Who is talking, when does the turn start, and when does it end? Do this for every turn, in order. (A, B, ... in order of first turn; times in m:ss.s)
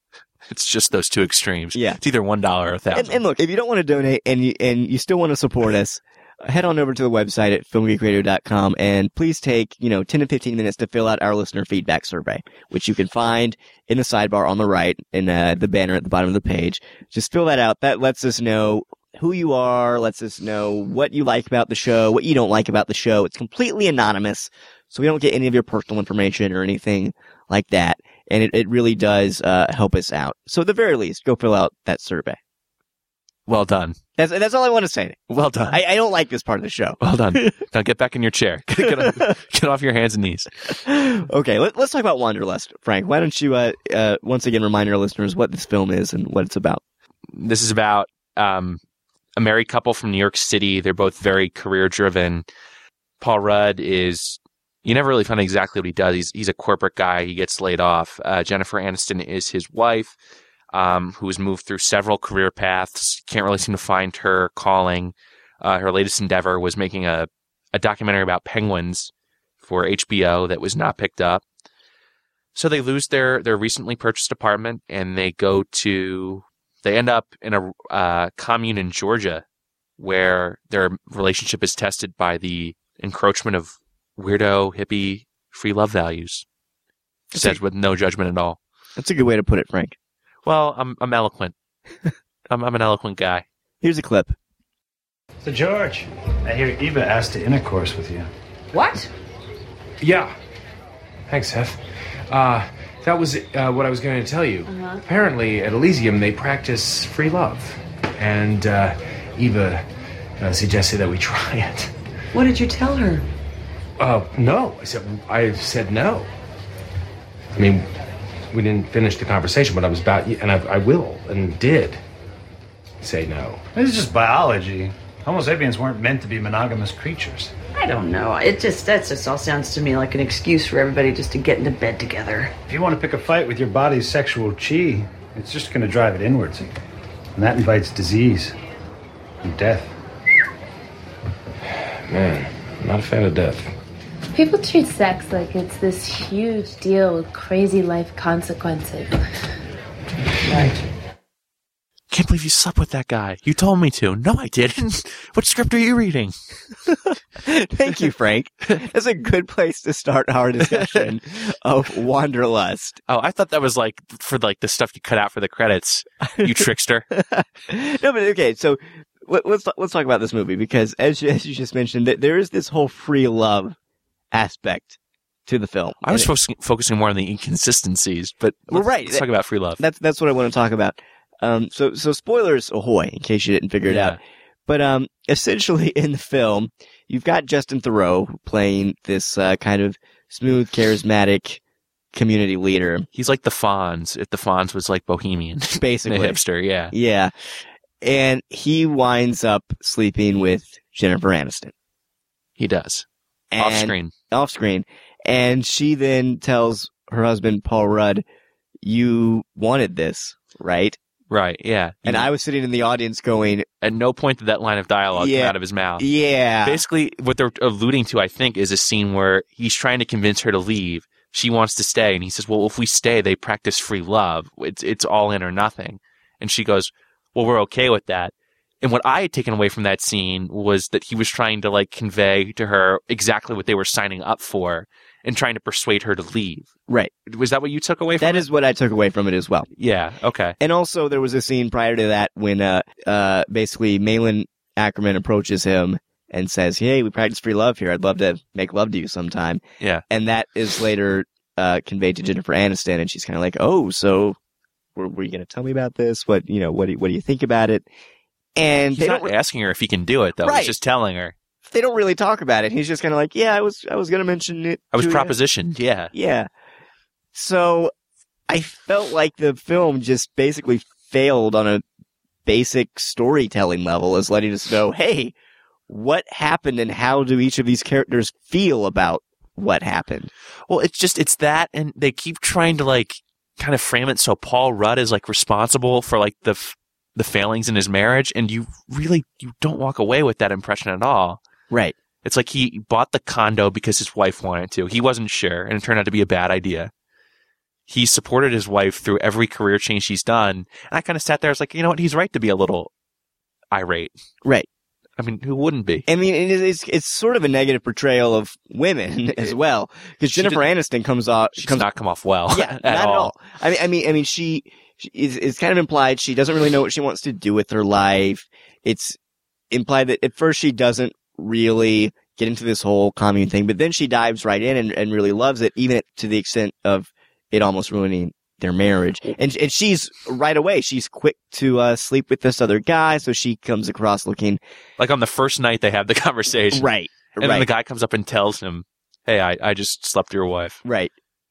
0:00.5-0:03.2 A
0:02.9-0:32.4 B
0:33.5-0:34.0 A
0:34.2-0:37.5 B
0:35.3-0:35.8 A
0:37.0-0:40.5 A
0:38.8-0:39.3 B
0:40.7-0:46.8 B
0:47.3-0:48.8 A
0:49.4-0:52.4 A
0:53.2-1:00.2 A
1:00.7-1:09.1 A
1:09.6-1:11.4 A
1:12.5-1:19.4 A
1:20.0-1:26.4 A
1:27.3-1:27.6 B
1:27.3-1:28.6 A
1:29.0-1:29.9 B
1:30.4-1:31.5 A
1:32.5-1:33.4 A
1:33.8-1:34.4 B
1:35.4-1:38.3 C
1:38.7-1:39.1 D
1:40.0-1:40.3 E
1:41.3-1:49.8 E
1:44.6-1:45.0 D
1:50.4-1:51.9 E
1:52.3-1:53.2 D
1:54.0-1:56.3 E
1:57.5-1:57.9 E
1:58.5-2:02.0 E
2:03.0-2:03.6 E
2:03.7-2:07.5 C
2:07.8-2:12.5 D
2:12.7-2:16.7 C
2:17.4-2:18.5 C
2:19.4-2:19.9 C
2:22.0-2:23.7 E
2:24.3-2:29.2 F
2:30.4-2:30.8 D
2:32.1-2:36.3 A
2:37.0-2:43.0 B
2:43.1-2:47.1 A
2:46.3-2:53.8 B
2:54.3-2:56.3 B
2:56.0-2:59.8 A
2:58.7-2:59.2 B
2:59.8-3:11.6 B
3:03.8-3:04.2 A
3:12.1-3:13.1 B
3:13.1-3:16.9 A
3:15.8-3:16.4 B
3:16.9-3:17.3 B
3:18.0-3:21.7 B
3:22.6-3:23.0 A
3:23.5-3:28.2 B
3:23.6-3:24.1 A
3:28.8-3:31.0 B
3:31.3-3:32.3 A
3:32.0-3:33.6 B
3:33.8-3:36.0 A
3:35.1-3:36.8 B
3:36.6-3:56.7 A
3:57.2-3:58.4 A
3:58.2-3:59.7 B
3:59.7-4:00.6 A
4:00.6-4:14.4 B
4:14.9-4:17.9 B
4:18.6-4:19.3 B
4:18.9-4:21.3 A
4:20.4-4:20.8 B
4:21.6-4:25.3 B
4:24.9-4:26.1 A
4:26.1-4:26.5 B
4:27.3-4:27.9 B
4:28.5-4:31.8 B
4:32.4-4:35.3 B
4:35.9-4:40.3 B
4:40.7-4:51.4 A
4:51.7-4:51.9 B
4:52.2-4:56.9 A
4:57.9-5:02.9 A
5:03.7-5:04.1 A
5:05.2-5:06.1 A
5:06.1-5:11.9 B
5:10.3-5:10.6 A
5:11.6-5:13.3 A
5:12.5-5:19.2 B
5:19.7-5:34.6 B
5:35.0-5:40.8 A
5:36.7-5:37.7 B
5:40.8-5:41.1 B